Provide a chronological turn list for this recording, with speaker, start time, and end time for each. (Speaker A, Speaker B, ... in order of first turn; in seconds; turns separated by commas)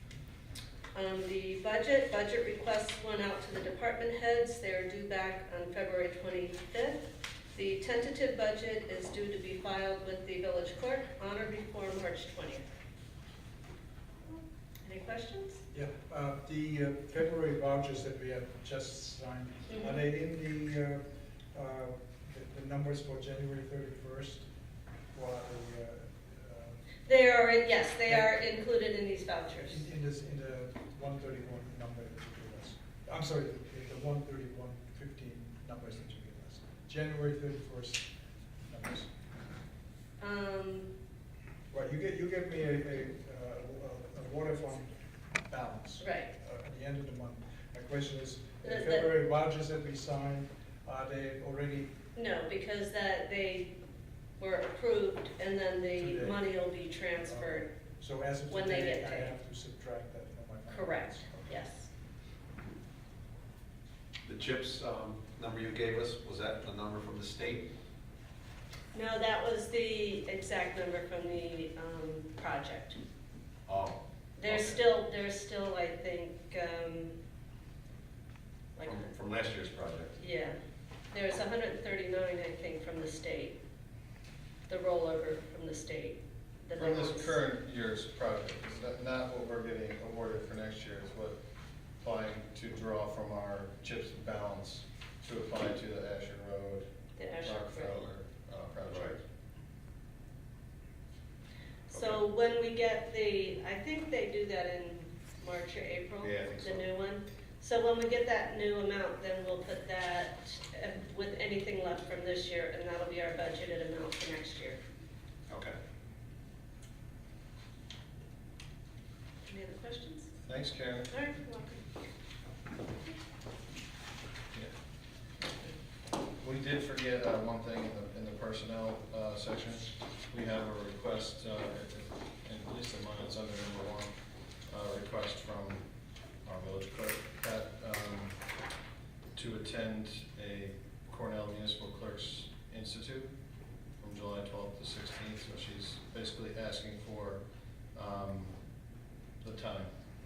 Speaker A: 0.9-12.6, Speaker A: 14.2-15.6, Speaker B: 15.7-24.5, Speaker B: 25.1-26.8, Speaker A: 27.1-29.8, Speaker B: 28.1-28.4, Speaker B: 29.6-38.1, Speaker B: 38.7-39.1, Speaker A: 40.2-40.9, Speaker B: 41.7-44.9, Speaker B: 45.5-51.9, Speaker A: 46.0-46.3, Speaker A: 48.6-49.1, Speaker A: 52.1-53.8, Speaker A: 54.4-57.7, Speaker B: 56.0-56.4, Speaker B: 57.2-61.6, Speaker A: 58.5-59.3, Speaker A: 60.7-61.9, Speaker C: 64.2-67.7, Speaker A: 68.9-73.0, Speaker C: 73.7-74.8, Speaker A: 74.4-77.2, Speaker A: 78.8-79.1, Speaker C: 78.8-80.1, Speaker A: 80.2-80.6, Speaker A: 81.1-83.6, Speaker A: 84.7-87.4, Speaker D: 86.8-91.4, Speaker D: 92.0-96.9, Speaker A: 97.2-98.0, Speaker D: 97.4-99.2, Speaker C: 98.9-99.2, Speaker A: 101.9-114.8, Speaker C: 101.9-102.2, Speaker C: 106.2-106.7, Speaker C: 115.5-115.8, Speaker A: 119.5-120.3, Speaker D: 120.5-121.1, Speaker A: 121.1-121.9, Speaker D: 126.4-134.1, Speaker D: 134.6-138.4, Speaker D: 139.3-143.3, Speaker D: 144.0-148.7, Speaker D: 149.4-149.9